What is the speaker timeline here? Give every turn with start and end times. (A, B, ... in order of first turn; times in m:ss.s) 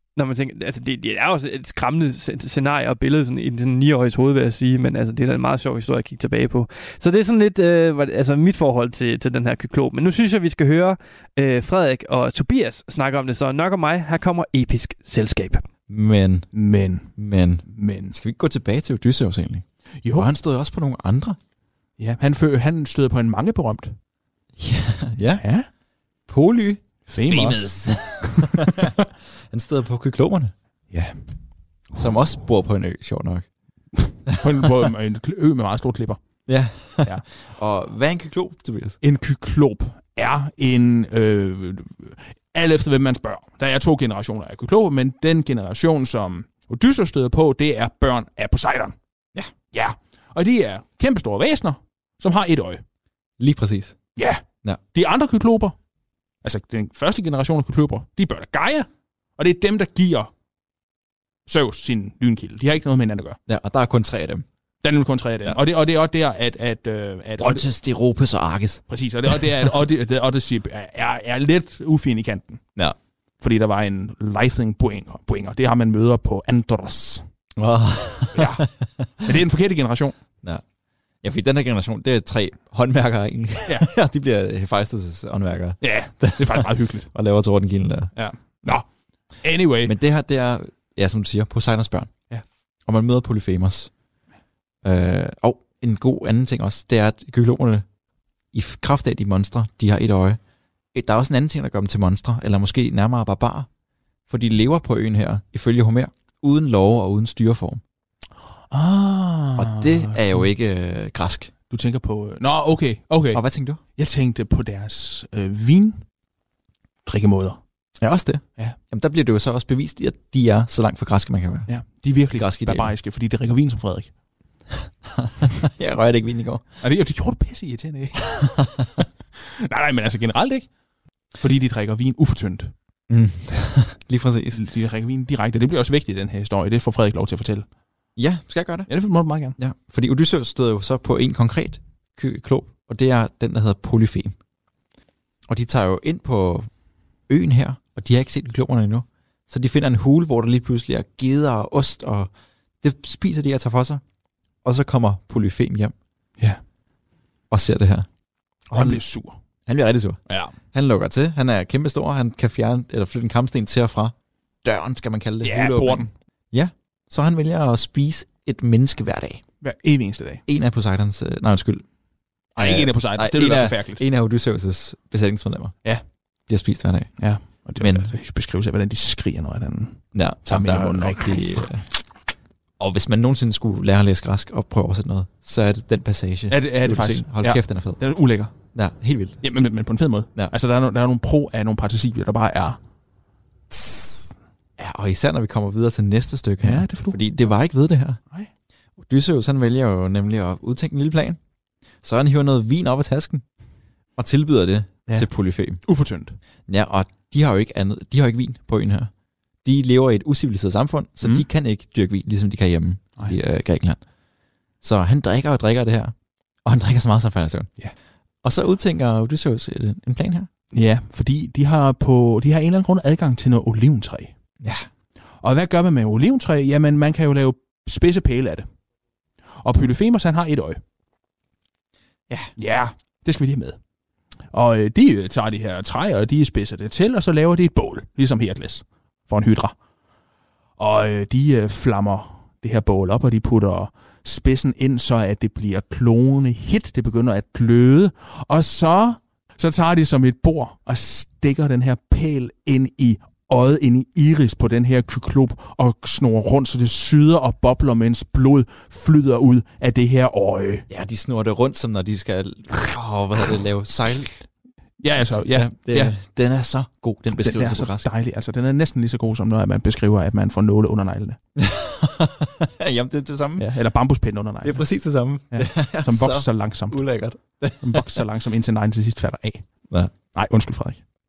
0:00.2-0:15.6 A
0:15.9-0:16.5 B
0:16.5-0:17.1 C
0:17.2-0:21.4 B
0:17.7-0:18.1 C
0:20.0-0:20.3 C
0:22.0-0:23.9 C
0:24.6-0:25.4 B
0:25.4-0:25.7 C
0:26.3-0:30.5 B
0:27.1-0:28.9 C
0:30.9-0:31.2 C
0:31.9-0:33.4 B
0:34.0-0:36.2 C
0:34.3-0:34.9 B
0:36.5-0:39.0 B
0:39.0-0:48.9 C
0:49.7-0:52.8 C
0:53.4-0:54.0 B
0:54.2-0:55.7 C
0:56.4-1:00.3 C
1:01.5-1:03.4 C
1:03.5-1:04.4 B
1:04.8-1:07.7 C
1:07.4-1:09.4 B
1:08.9-1:12.6 C
1:13.4-1:17.2 C
1:17.6-1:19.4 B
1:18.3-1:18.7 C
1:19.2-1:20.1 C
1:21.2-1:28.1 B
1:25.8-1:27.1 C
1:28.2-1:28.8 C
1:29.4-1:29.9 C
1:29.8-1:32.1 B
1:32.9-1:33.9 B
1:34.8-1:37.8 B
1:38.5-1:40.4 B
1:40.9-1:43.7 B
1:44.3-1:47.8 B
1:48.7-1:50.4 C
1:49.6-1:51.5 B
1:51.7-1:53.4 C
1:53.3-1:53.8 B
1:54.0-1:56.0 C
1:57.0-1:57.6 C
1:58.0-2:01.7 B
2:01.7-2:04.1 C
2:02.3-2:02.9 B
2:05.1-2:06.6 B
2:06.8-2:08.6 C
2:08.3-2:09.0 B
2:09.4-2:10.7 C
2:11.4-2:12.7 C
2:13.1-2:14.6 B
2:14.5-2:17.6 C
2:18.2-2:18.9 B
2:18.9-2:19.5 C
2:19.6-2:24.4 B
2:25.5-2:26.7 B
2:27.3-2:32.3 B
2:32.8-2:34.0 B
2:34.6-2:35.9 B
2:37.5-2:38.1 B
2:38.7-2:39.4 C
2:38.7-2:39.0 B
2:39.6-2:40.2 B
2:40.3-2:40.5 C
2:40.7-2:49.4 B
2:45.4-2:46.1 C
2:49.6-2:50.4 C
2:50.5-2:51.8 B
2:52.6-2:55.7 B
2:52.6-2:54.0 C
2:56.5-2:57.1 B
2:57.2-3:01.7 C
2:57.8-2:58.1 B
3:00.1-3:01.8 B
3:02.8-3:08.0 B
3:06.5-3:08.5 C
3:08.7-3:09.4 B
3:09.4-3:12.8 C
3:14.8-3:18.2 B
3:16.6-3:17.2 C
3:19.0-3:21.4 B
3:22.0-3:23.4 B
3:24.2-3:25.8 B
3:25.8-3:26.4 C
3:26.7-3:29.1 B
3:29.6-3:34.0 B
3:34.8-3:36.1 B
3:36.6-3:37.7 B
3:38.4-3:40.5 B
3:40.7-3:44.3 C
3:44.6-3:44.9 B
3:45.4-3:48.6 C
3:49.6-3:50.8 C
3:52.6-3:53.8 C
3:54.5-3:59.7 C
4:00.8-4:20.8 C
4:20.9-4:24.3 B
4:25.0-4:26.1 C
4:25.1-4:28.1 B
4:27.4-4:31.4 C
4:31.6-4:33.7 B
4:33.6-4:34.8 C
4:34.6-4:38.2 B
4:35.5-4:37.0 C
4:37.8-4:39.6 C
4:40.3-4:41.0 C